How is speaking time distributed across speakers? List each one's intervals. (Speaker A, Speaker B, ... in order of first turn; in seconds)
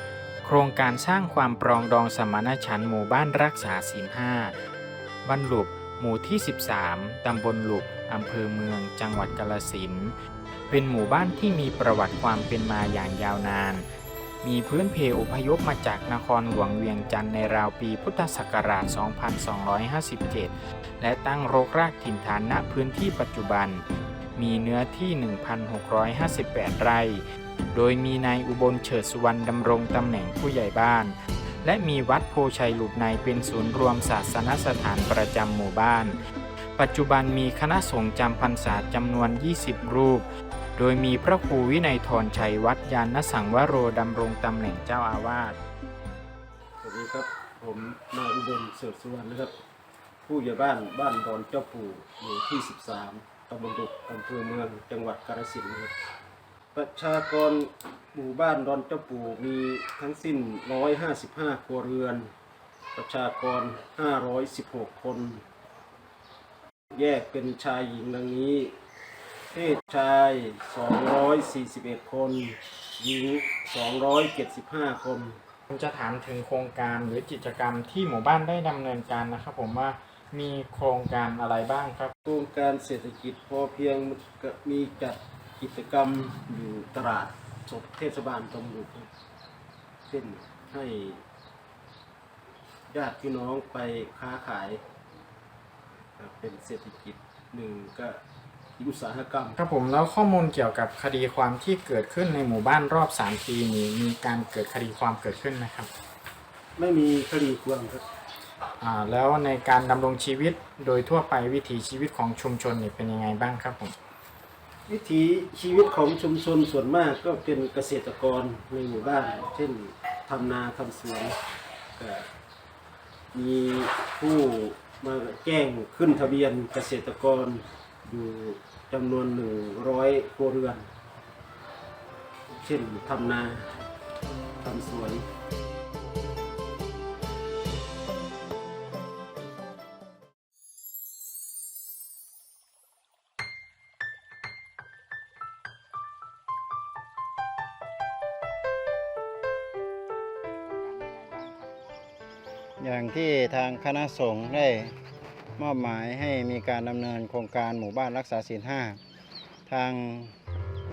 Speaker A: 0.4-4.5, 5.2-10.1, 10.7-13.8, 14.4-23.8, 24.4-36.2, 36.8-45.6, 75.7-82.1, 99.5-105.9, 108.8-113.9
Speaker B: 46.8-49.5, 50.3-55.9, 56.7-62.3, 62.9-65.4, 66.9-68.7, 69.5-75.4, 82.2-89.1, 90.1-91.2, 92.9-94.8, 96.2-98.2, 98.8-99.5, 106.8-108.0, 114.9-121.3, 122.0-122.2, 123.3-130.9, 132.6-133.8, 134.6-135.2
Speaker C: 152.8-154.9, 155.6-159.0, 159.7-160.3